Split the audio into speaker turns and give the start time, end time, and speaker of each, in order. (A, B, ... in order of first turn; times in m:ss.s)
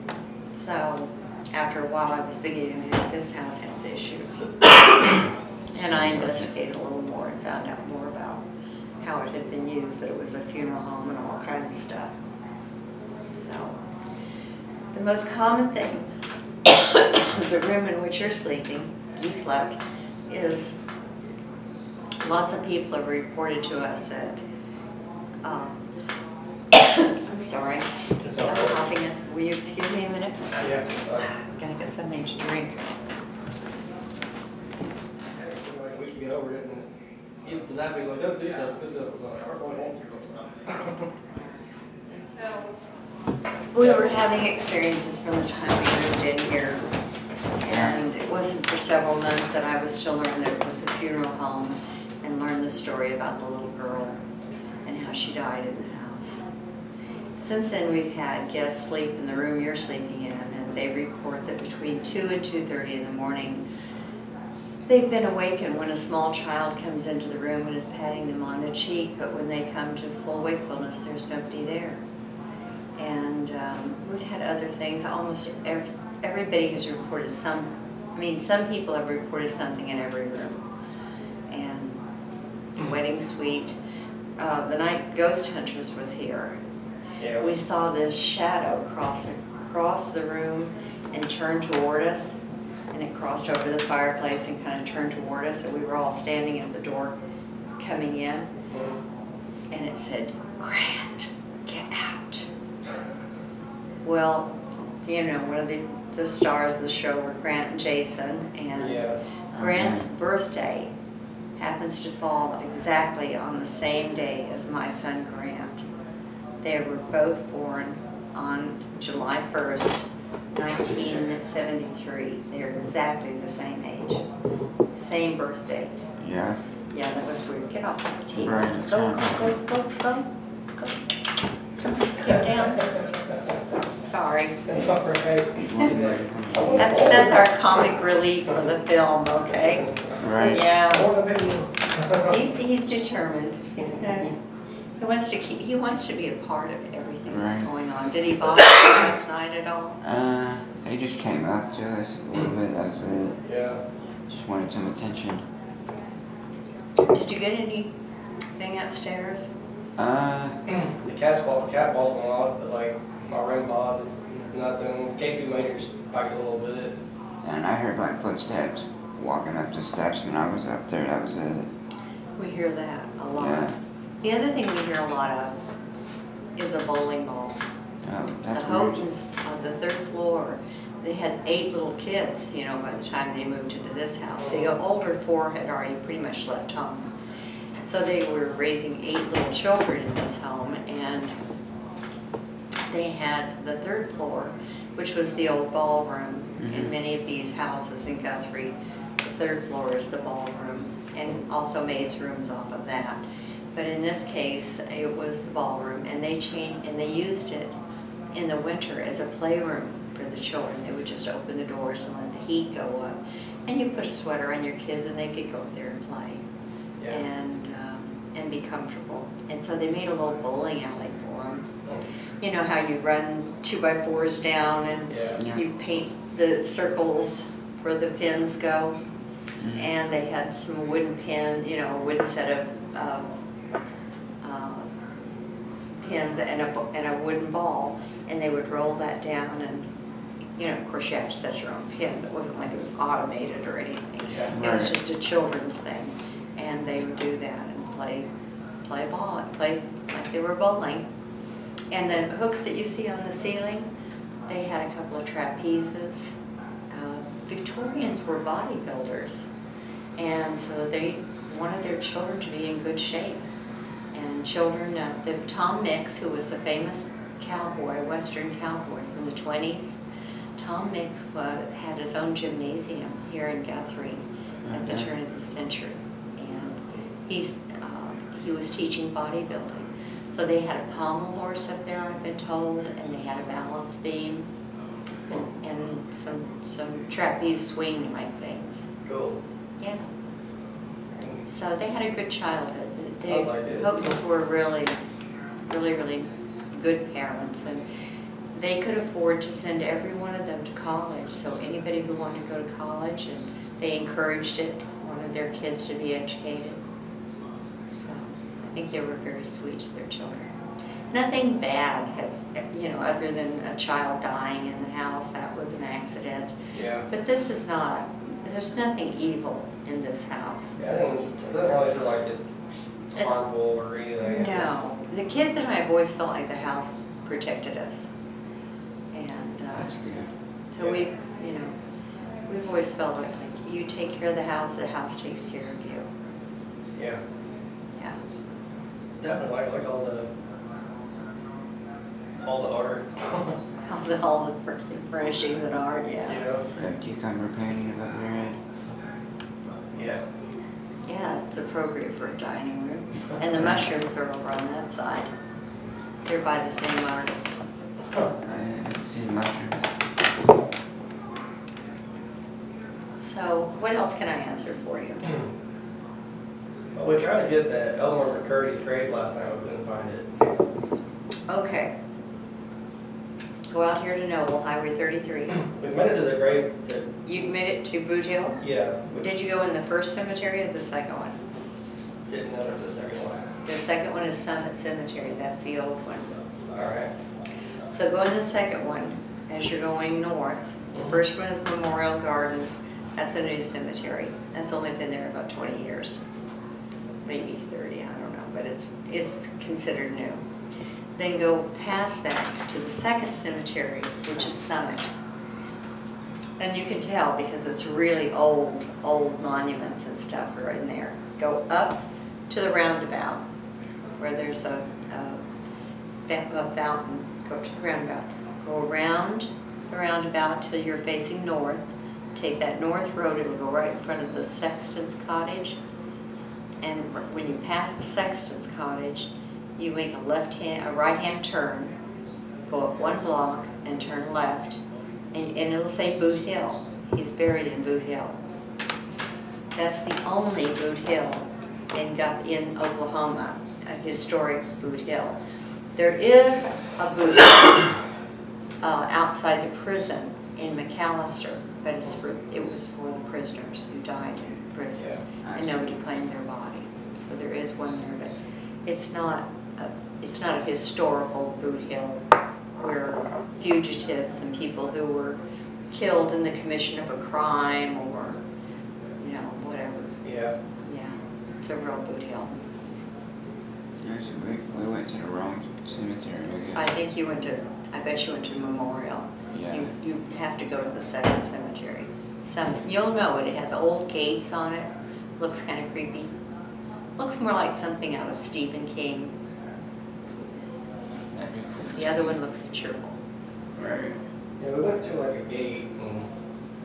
0:00.5-0:04.8 A
0:05.8-0:08.4 A
0:05.8-0:06.5 B
0:09.0-0:12.1 A
0:13.3-0:13.8 A
0:14.9-0:16.1 A
0:16.6-0:20.8 A
0:22.2-0:24.4 A
0:25.4-0:25.8 A
0:26.7-0:32.9 A
0:28.2-0:28.8 C
0:30.6-0:31.3 C
0:35.3-0:36.9 C
0:37.4-0:41.1 C
0:42.1-0:42.8 A
0:43.7-0:46.8 A
0:43.8-0:44.1 C
0:47.6-0:54.2 A
0:47.6-0:48.0 B
0:54.9-0:56.4 A
0:57.4-1:03.6 A
1:04.9-1:12.0 A
1:13.0-1:20.6 A
1:21.5-1:22.0 A
1:22.8-1:23.8 A
1:24.4-1:26.6 A
1:27.2-1:27.6 C
1:27.4-1:32.4 A
1:32.9-1:37.2 A
1:37.8-1:38.5 A
1:38.7-1:39.0 C
1:39.7-1:42.5 A
1:44.0-1:50.9 A
1:48.8-1:49.2 C
1:49.6-1:50.0 B
1:51.6-1:55.8 A
1:56.6-2:04.2 A
2:05.0-2:06.0 A
2:06.2-2:06.6 B
2:06.9-2:11.0 A
2:08.4-2:09.5 B
2:11.8-2:13.0 A
2:14.0-2:14.8 A
2:14.7-2:17.5 C
2:15.6-2:17.3 B
2:16.8-2:19.9 A
2:20.2-2:20.6 B
2:20.4-2:21.1 A
2:20.8-2:22.4 C
2:22.2-2:24.4 A
2:25.0-2:30.0 A
2:27.3-2:27.7 B
2:30.0-2:33.4 B
2:33.5-2:33.8 C
2:34.3-2:35.4 B
2:37.0-2:37.9 A
2:38.6-2:39.5 A
2:40.0-2:40.6 B
2:40.7-2:47.0 C
2:47.4-2:51.7 B
2:52.4-2:53.7 A
2:53.4-2:53.8 B
2:54.2-2:55.6 A
2:56.6-2:57.6 A
2:58.0-2:59.0 B
2:58.5-3:07.1 A
3:04.4-3:04.8 C
3:07.8-3:11.3 A
3:12.9-3:23.2 A
3:16.6-3:16.9 B
3:23.8-3:27.7 A
3:28.3-3:36.4 A
3:37.1-3:41.7 A
3:42.4-3:49.0 A
3:45.1-3:45.4 C
3:49.6-3:49.9 B
3:49.8-3:53.3 A
3:54.4-3:54.9 A
3:56.0-3:59.9 A
4:00.6-4:08.3 A
4:04.5-4:04.9 B
4:08.8-4:11.1 A
4:11.9-4:13.9 A
4:14.5-4:16.3 A
4:16.9-4:19.5 A
4:20.2-4:23.4 A
4:24.1-4:30.0 A
4:30.6-4:44.5 A
4:34.6-4:35.1 B
4:45.3-4:48.8 A
4:49.0-4:49.4 C
4:49.8-4:50.1 A
4:51.1-4:51.4 C
4:51.5-4:55.0 A
4:53.3-4:54.1 C
4:55.7-4:57.8 A
4:58.5-5:06.8 A
5:08.0-5:10.5 A
5:11.1-5:16.6 A
5:16.7-5:17.1 C
5:17.1-5:20.8 A
5:20.8-5:24.7 C
5:23.2-5:23.4 A
5:24.3-5:28.1 A
5:29.1-5:29.9 A
5:29.7-5:30.3 B
5:30.7-5:31.7 A
5:30.8-5:31.0 C
5:32.5-5:36.1 A
5:37.0-5:37.2 C
5:39.2-5:40.3 C
5:42.4-5:43.6 C
5:43.9-5:46.4 A
5:46.3-5:46.6 C
5:46.8-5:48.6 B
5:49.9-5:50.2 C
5:51.1-5:55.3 A
5:56.3-5:57.6 A
5:58.4-5:59.9 B
6:03.2-6:05.4 A
6:07.0-6:10.3 C
6:11.5-6:11.9 A
6:13.7-6:15.7 A
6:15.6-6:17.4 C
6:17.3-6:18.6 A
6:18.6-6:19.3 C
6:19.2-6:21.4 A
6:22.3-6:23.6 C
6:23.7-6:26.4 A
6:26.7-6:27.1 C
6:27.9-6:36.2 A
6:37.2-6:40.4 A
6:41.2-6:45.1 A
6:46.6-6:53.4 A
6:54.2-6:55.4 A
6:56.3-7:05.8 A
7:06.8-7:11.9 A
7:12.7-7:14.8 A
7:15.3-7:18.4 A
7:19.8-7:25.4 A
7:26.0-7:27.9 A
7:28.8-7:38.3 A
7:35.5-7:35.8 B
7:38.9-7:42.2 A
7:42.8-7:45.4 A
7:45.9-7:48.4 A
7:49.2-7:50.2 A
7:50.2-7:50.6 C
7:50.8-7:52.5 A
7:54.0-7:56.8 B
7:56.8-8:04.9 A
7:59.5-7:59.9 B
8:05.4-8:06.3 A
8:07.2-8:09.4 A
8:11.3-8:12.4 B
8:12.0-8:13.2 A
8:13.8-8:14.2 B
8:14.6-8:16.3 C